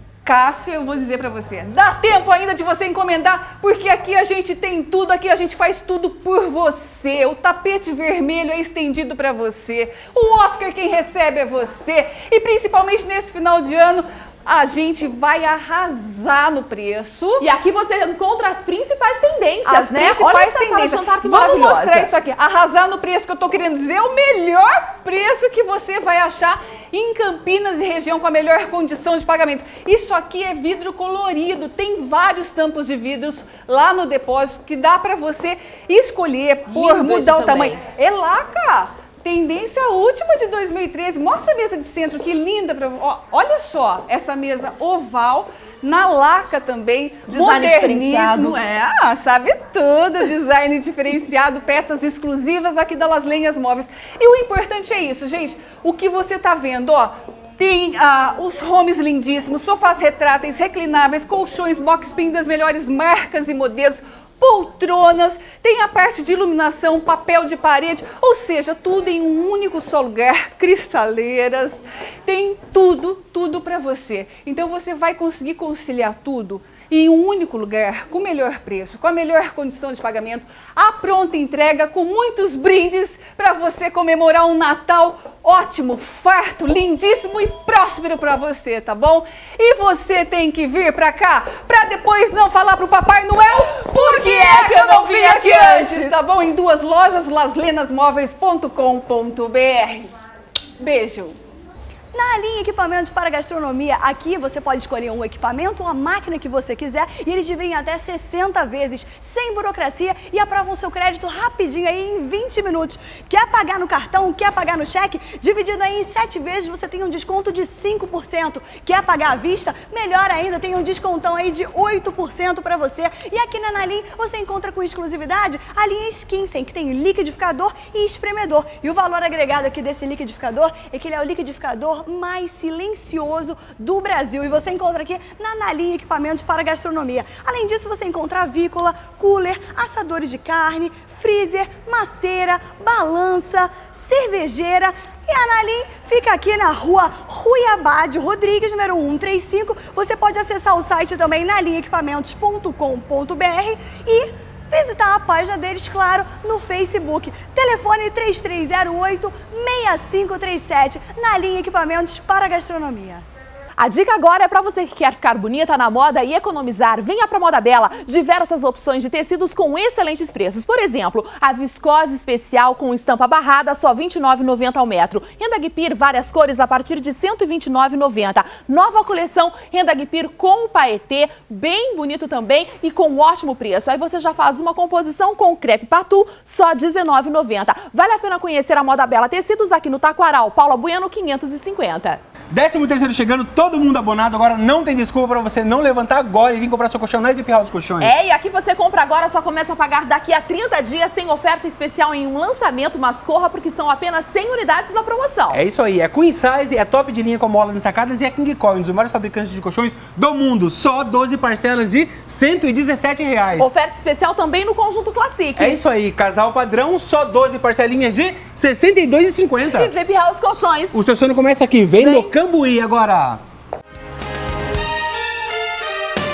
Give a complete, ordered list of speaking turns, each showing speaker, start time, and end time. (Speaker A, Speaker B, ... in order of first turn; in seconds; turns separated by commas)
Speaker A: 0.2-17.4, Speaker B: 17.4-22.1, Speaker A: 19.6-100.1, Speaker B: 36.7-37.8, Speaker B: 47.3-48.6, Speaker B: 93.9-96.1, Speaker A: 100.8-101.4, Speaker C: 102.1-163.2, Speaker B: 163.8-192.2, Speaker D: 192.5-198.1, Speaker B: 198.0-205.6, Speaker D: 205.5-213.7, Speaker B: 213.6-215.8, Speaker D: 215.6-219.9, Speaker B: 219.7-220.9, Speaker D: 220.9-223.4, Speaker B: 222.0-222.3